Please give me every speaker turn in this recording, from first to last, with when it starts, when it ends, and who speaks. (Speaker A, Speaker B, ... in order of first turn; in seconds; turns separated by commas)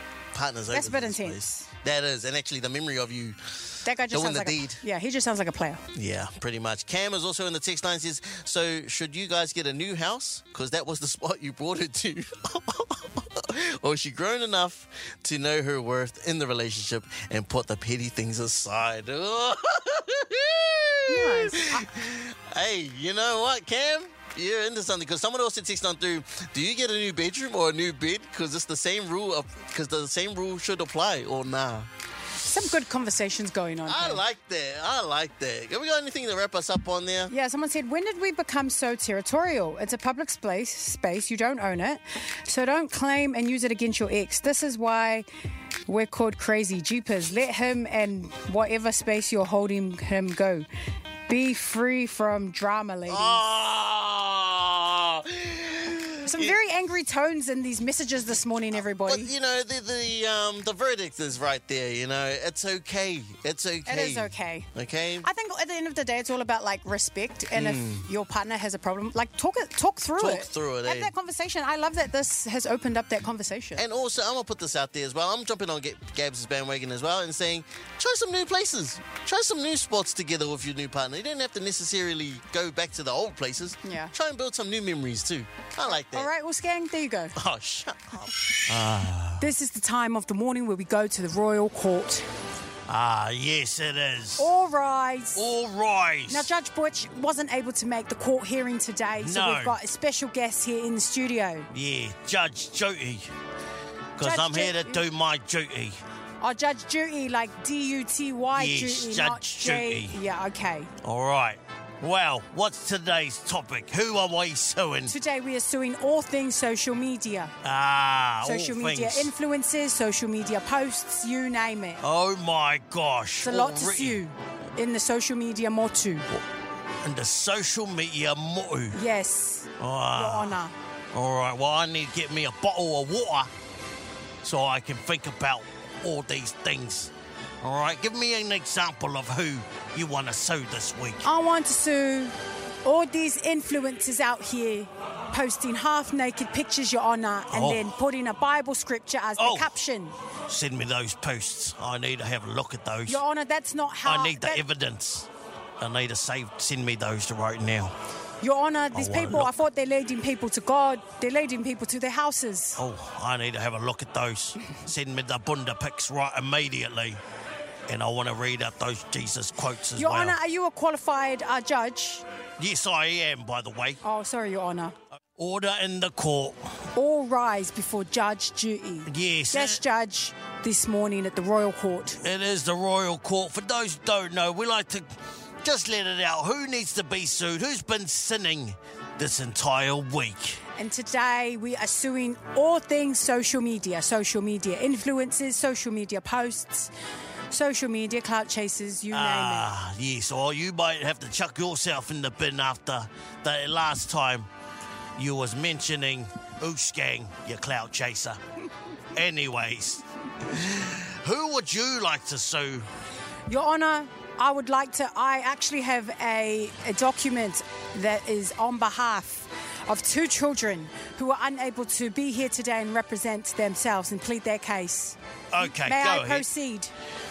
Speaker A: 0.3-4.8, Speaker B: 0.7-1.7, Speaker B: 3.8-5.9, Speaker A: 5.9-31.9, Speaker B: 21.1-21.9, Speaker B: 32.5-34.2, Speaker A: 33.9-37.3, Speaker B: 37.3-45.2, Speaker B: 45.9-50.7, Speaker B: 51.3-53.4, Speaker A: 53.1-56.6, Speaker B: 56.2-59.3, Speaker A: 58.8-65.3, Speaker B: 63.9-64.7, Speaker B: 65.2-73.8, Speaker A: 67.5-68.1, Speaker A: 70.2-71.1, Speaker A: 73.8-86.3, Speaker B: 83.8-84.1, Speaker B: 85.9-87.4, Speaker A: 87.3-89.5, Speaker B: 89.4-92.3, Speaker A: 92.9-94.5, Speaker B: 94.4-95.5, Speaker A: 95.3-96.5, Speaker B: 96.3-101.7, Speaker A: 99.2-99.8, Speaker A: 101.7-103.3, Speaker A: 104.2-106.0, Speaker B: 104.2-105.0, Speaker B: 106.4-110.9, Speaker A: 108.5-110.2, Speaker A: 111.0-115.1, Speaker B: 115.1-117.5, Speaker A: 117.6-119.3, Speaker B: 118.4-122.0, Speaker A: 122.0-124.2, Speaker B: 123.4-126.3, Speaker A: 127.0-129.0, Speaker B: 128.9-130.7, Speaker A: 129.8-130.6, Speaker A: 131.1-133.5, Speaker A: 134.4-141.3, Speaker B: 141.2-150.2, Speaker A: 147.5-147.9, Speaker A: 149.4-149.7, Speaker A: 150.5-153.2, Speaker B: 153.1-154.6, Speaker A: 154.0-155.3, Speaker A: 155.8-157.9, Speaker B: 158.4-162.8, Speaker A: 158.9-159.5, Speaker A: 162.8-167.2, Speaker A: 167.9-170.4, Speaker B: 170.0-172.2, Speaker A: 172.6-174.0, Speaker B: 174.0-174.9, Speaker A: 175.3-176.8, Speaker B: 176.9-182.2, Speaker A: 179.1-179.8, Speaker A: 182.2-190.6, Speaker B: 190.8-196.9, Speaker B: 197.5-199.7, Speaker A: 199.1-204.5, Speaker A: 205.2-208.4, Speaker A: 209.1-212.9, Speaker B: 213.5-226.9, Speaker A: 225.5-226.5